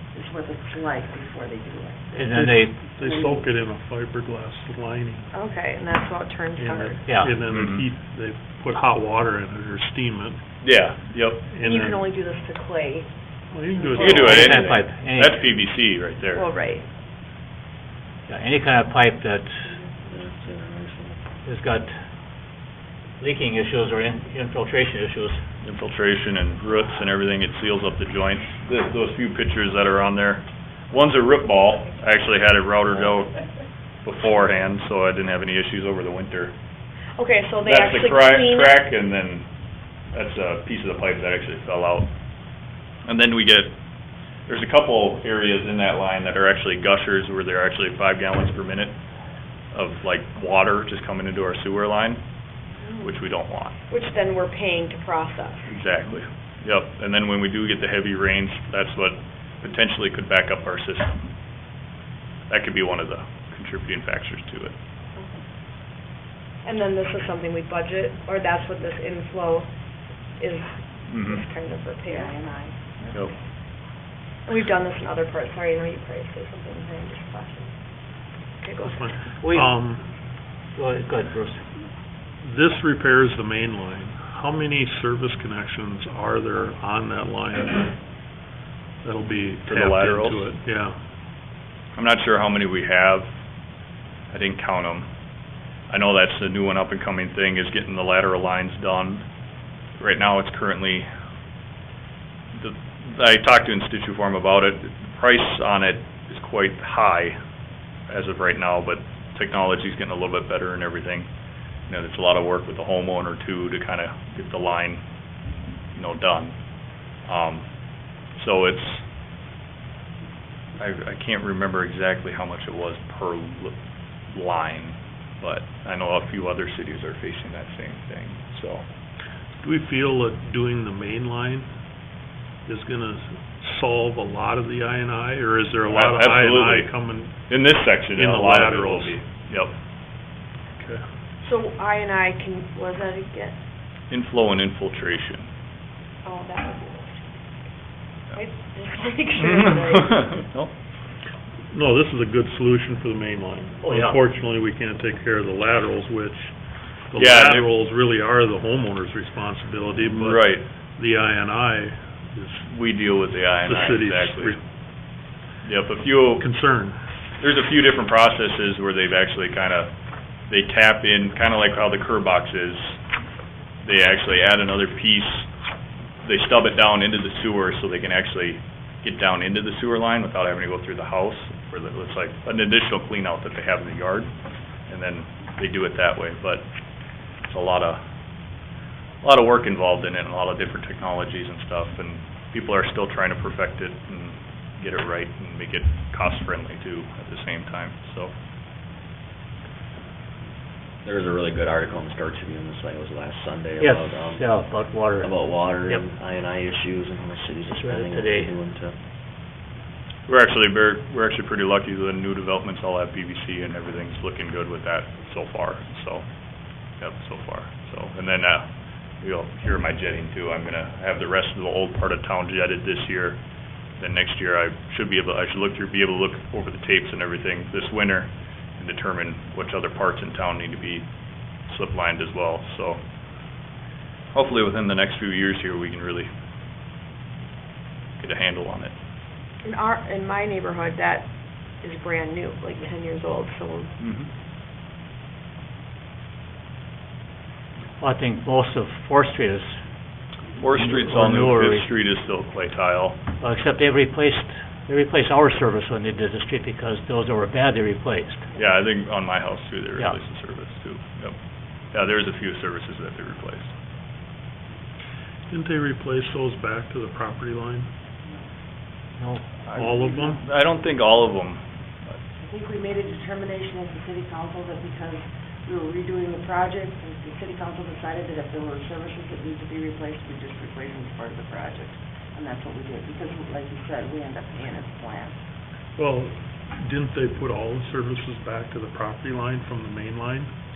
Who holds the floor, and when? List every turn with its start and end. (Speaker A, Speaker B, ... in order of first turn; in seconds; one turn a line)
Speaker A: 0.1-2.3
Speaker B: 2.1-2.9
Speaker C: 2.3-5.3
Speaker A: 3.0-3.5
Speaker D: 5.3-7.1
Speaker C: 6.5-10.4
Speaker B: 7.0-7.3
Speaker E: 7.4-7.8
Speaker E: 10.6-11.4
Speaker C: 11.5-12.1
Speaker D: 11.6-13.1
Speaker C: 13.5-14.2
Speaker D: 13.7-14.5
Speaker E: 14.0-16.4
Speaker B: 14.1-15.6
Speaker D: 16.3-16.9
Speaker B: 18.3-19.5
Speaker F: 20.0-21.2
Speaker B: 21.4-21.9
Speaker B: 23.2-25.4
Speaker E: 25.6-33.4
Speaker E: 34.0-36.5
Speaker D: 37.1-38.9
Speaker E: 37.6-39.5
Speaker E: 40.1-42.1
Speaker E: 43.0-43.7
Speaker E: 44.5-48.9
Speaker E: 49.7-52.2
Speaker D: 52.8-53.1
Speaker E: 53.0-53.7
Speaker D: 53.9-55.7
Speaker E: 55.7-61.2
Speaker E: 62.5-64.7
Speaker D: 66.6-69.7
Speaker D: 70.4-72.4
Speaker E: 71.1-71.4
Speaker A: 72.0-73.1
Speaker D: 74.5-77.7
Speaker D: 78.6-79.1
Speaker C: 78.8-80.0
Speaker B: 79.4-79.7
Speaker B: 80.7-81.6
Speaker C: 82.4-87.9
Speaker C: 89.0-91.0
Speaker E: 89.6-90.5
Speaker E: 91.9-93.3
Speaker E: 94.3-95.1
Speaker E: 95.9-99.2
Speaker E: 100.0-101.1
Speaker E: 102.5-107.3
Speaker E: 108.1-111.3
Speaker E: 111.9-115.0
Speaker E: 115.9-116.5
Speaker E: 117.2-117.6
Speaker E: 118.3-119.0
Speaker E: 120.8-123.8
Speaker E: 124.3-128.8
Speaker C: 129.6-131.7
Speaker C: 132.7-137.5
Speaker E: 135.8-136.9
Speaker E: 137.5-139.7
Speaker C: 138.1-139.2
Speaker D: 141.4-143.6
Speaker E: 144.1-145.4
Speaker D: 146.2-147.7
Speaker D: 148.3-150.4
Speaker E: 149.4-150.7
Speaker C: 151.7-156.5
Speaker B: 153.8-154.2
Speaker C: 157.1-162.7
Speaker E: 157.2-157.7
Speaker E: 160.1-160.6
Speaker E: 162.7-164.6
Speaker C: 163.6-164.6
Speaker E: 165.6-166.4
Speaker C: 166.4-167.0
Speaker E: 167.4-169.9
Speaker E: 170.5-172.9
Speaker E: 173.8-175.5
Speaker E: 176.2-184.3
Speaker E: 184.9-186.6
Speaker E: 187.4-188.0
Speaker E: 189.2-198.3
Speaker F: 201.0-209.0
Speaker B: 203.8-205.3
Speaker B: 207.7-208.5
Speaker E: 210.3-216.2
Speaker E: 217.0-218.7
Speaker E: 219.2-223.4
Speaker E: 224.0-231.0
Speaker E: 231.7-233.0
Speaker E: 234.3-236.3
Speaker E: 238.2-238.9
Speaker D: 239.6-241.3
Speaker D: 241.8-243.9
Speaker E: 244.0-244.3
Speaker B: 248.0-249.7
Speaker E: 250.6-253.2
Speaker B: 250.6-251.9
Speaker B: 253.4-258.5
Speaker E: 258.5-261.3
Speaker E: 261.9-263.7
Speaker C: 265.5-267.9
Speaker B: 269.2-269.6
Speaker C: 269.7-270.4
Speaker E: 269.7-272.1
Speaker A: 272.4-285.4
Speaker C: 286.0-290.5